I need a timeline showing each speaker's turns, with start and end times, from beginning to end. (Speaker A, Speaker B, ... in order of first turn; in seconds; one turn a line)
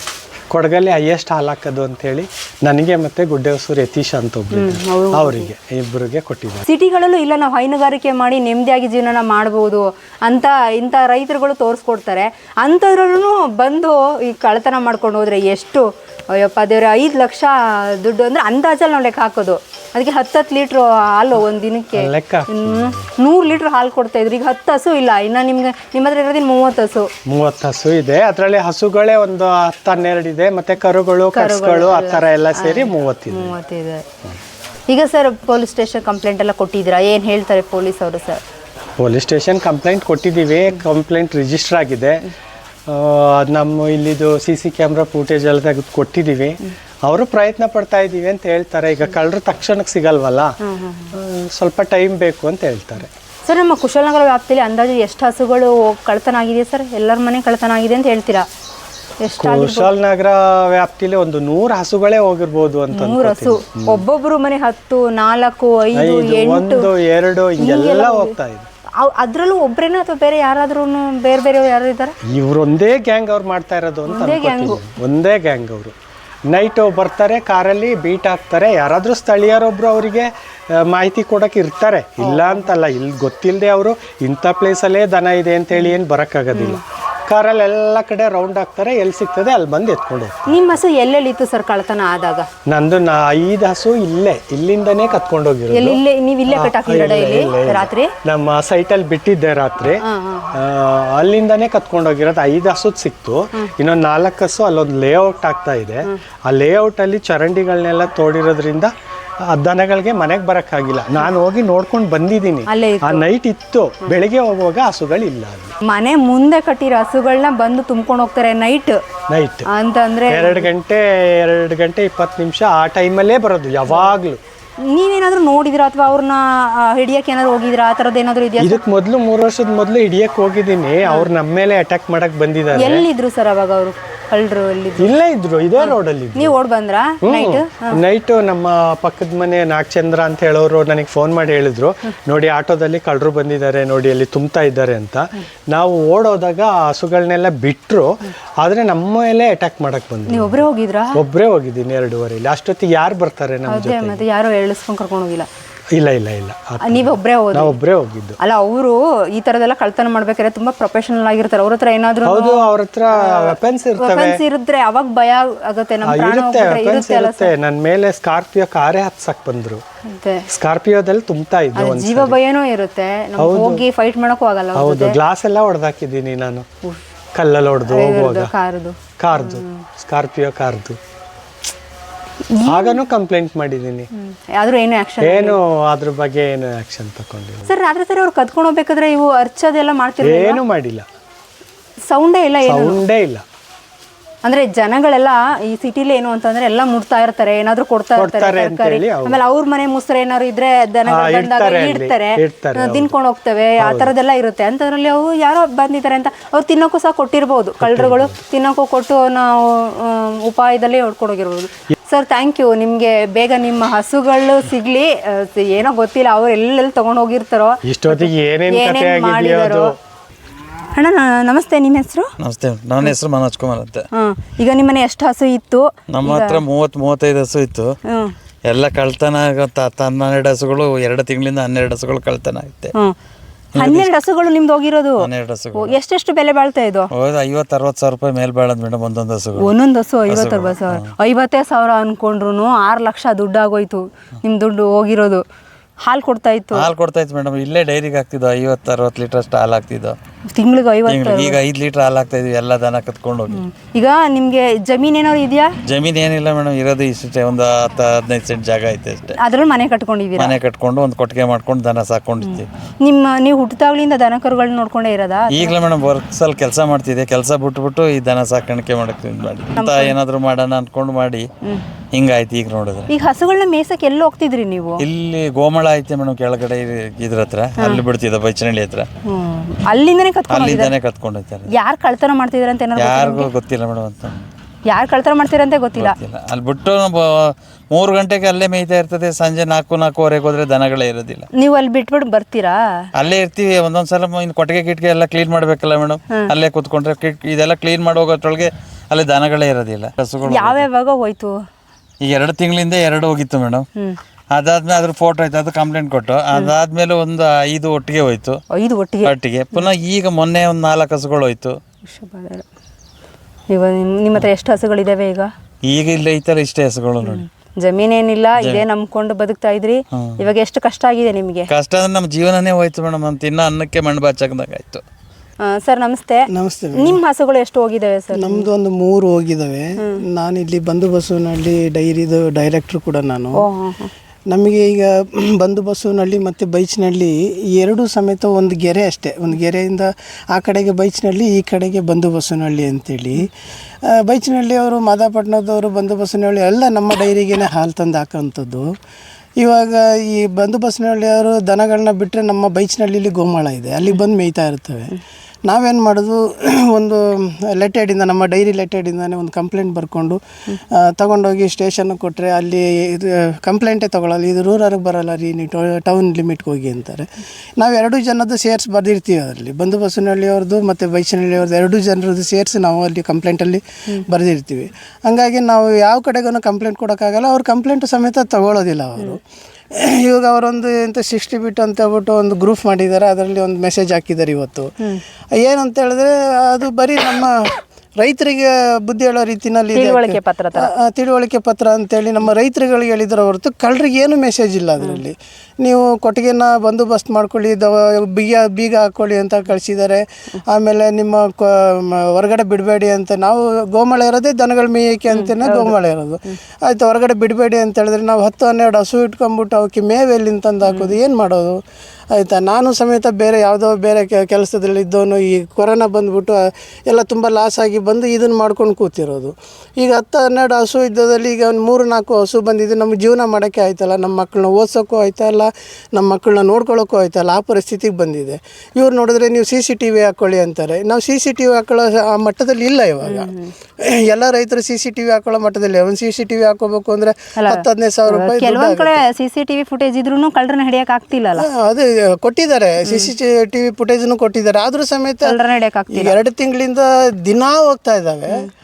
Speaker A: 0.5-6.7
Speaker B: 4.5-5.5
Speaker B: 6.7-27.1
Speaker A: 21.9-23.1
Speaker A: 27.3-33.6
Speaker B: 31.4-34.0
Speaker B: 34.9-38.4
Speaker A: 39.0-42.3
Speaker A: 42.9-50.5
Speaker B: 50.6-51.1
Speaker A: 51.1-53.1
Speaker B: 53.5-58.5
Speaker B: 59.2-59.9
Speaker A: 59.4-64.0
Speaker B: 62.9-66.9
Speaker A: 65.9-68.7
Speaker B: 67.6-68.4
Speaker B: 69.0-72.1
Speaker A: 72.2-75.9
Speaker B: 74.1-74.8
Speaker A: 76.5-90.7
Speaker B: 82.2-82.6
Speaker B: 90.5-92.5
Speaker A: 92.7-108.9
Speaker B: 95.7-98.1
Speaker B: 100.0-100.5
Speaker A: 109.5-115.7
Speaker B: 112.7-113.2
Speaker B: 115.9-119.0
Speaker A: 119.3-119.7
Speaker B: 119.7-120.7
Speaker A: 120.3-124.4
Speaker B: 124.9-128.8
Speaker A: 128.6-133.1
Speaker B: 132.8-135.1
Speaker A: 135.0-136.6
Speaker B: 135.8-138.0
Speaker A: 137.2-154.2
Speaker B: 150.3-151.2
Speaker B: 153.7-155.5
Speaker A: 155.9-158.4
Speaker B: 156.8-157.8
Speaker B: 158.4-162.7
Speaker A: 162.2-164.4
Speaker B: 163.3-167.5
Speaker A: 166.0-169.8
Speaker B: 170.1-170.4
Speaker A: 170.5-172.4
Speaker B: 171.8-175.2
Speaker A: 173.4-173.8
Speaker A: 174.8-176.7
Speaker A: 177.3-178.5
Speaker B: 177.9-179.7
Speaker A: 179.2-181.0
Speaker B: 182.5-183.0
Speaker A: 182.6-184.1
Speaker B: 184.2-185.6
Speaker A: 185.2-187.7
Speaker B: 187.7-190.6
Speaker A: 190.2-191.1
Speaker B: 192.1-193.0
Speaker A: 192.7-193.4
Speaker B: 194.4-219.9
Speaker A: 198.2-199.4
Speaker A: 201.1-203.1
Speaker A: 203.8-204.1
Speaker A: 207.8-208.4
Speaker A: 217.8-219.9
Speaker B: 220.9-222.3
Speaker C: 222.4-224.1
Speaker B: 224.2-226.6
Speaker C: 226.1-227.9
Speaker C: 228.7-232.9
Speaker C: 233.7-234.1
Speaker B: 233.8-235.3
Speaker C: 235.2-236.0
Speaker B: 235.8-237.1
Speaker C: 237.1-241.1
Speaker B: 239.6-245.4
Speaker B: 246.0-246.9
Speaker C: 246.7-250.2
Speaker B: 250.5-251.6
Speaker C: 251.1-253.7
Speaker B: 253.5-255.7
Speaker C: 255.9-259.4
Speaker B: 259.4-260.6
Speaker C: 260.4-262.7
Speaker B: 262.5-265.7
Speaker C: 265.5-271.5
Speaker B: 269.8-270.1
Speaker C: 272.1-273.1
Speaker B: 273.1-275.0
Speaker C: 275.0-279.1
Speaker B: 279.3-280.9
Speaker C: 280.5-281.7
Speaker B: 281.7-283.5
Speaker C: 283.0-284.4
Speaker B: 284.9-286.1
Speaker C: 285.9-291.5
Speaker B: 291.6-292.8
Speaker C: 293.2-300.9
Speaker B: 300.5-301.6
Speaker C: 302.2-303.9
Speaker C: 304.5-308.6
Speaker B: 308.7-309.3
Speaker C: 309.2-311.7
Speaker B: 312.1-312.6
Speaker B: 313.7-315.5
Speaker C: 315.9-317.5
Speaker B: 317.4-321.7
Speaker C: 318.6-318.9
Speaker C: 320.1-320.5
Speaker C: 321.7-325.0
Speaker B: 325.6-326.4
Speaker D: 326.5-327.2
Speaker B: 327.0-328.7
Speaker D: 328.3-333.6
Speaker B: 333.6-334.1
Speaker D: 334.5-343.5
Speaker D: 344.1-348.9
Speaker D: 349.6-355.1
Speaker D: 355.7-367.3
Speaker D: 367.8-379.4
Speaker D: 380.0-384.9
Speaker D: 385.6-387.7
Speaker D: 388.2-411.8
Speaker B: 389.9-390.9
Speaker D: 412.3-433.5
Speaker B: 433.3-433.7
Speaker D: 434.1-439.2
Speaker B: 437.6-441.6
Speaker D: 441.6-445.6
Speaker B: 445.4-446.3
Speaker D: 446.1-448.7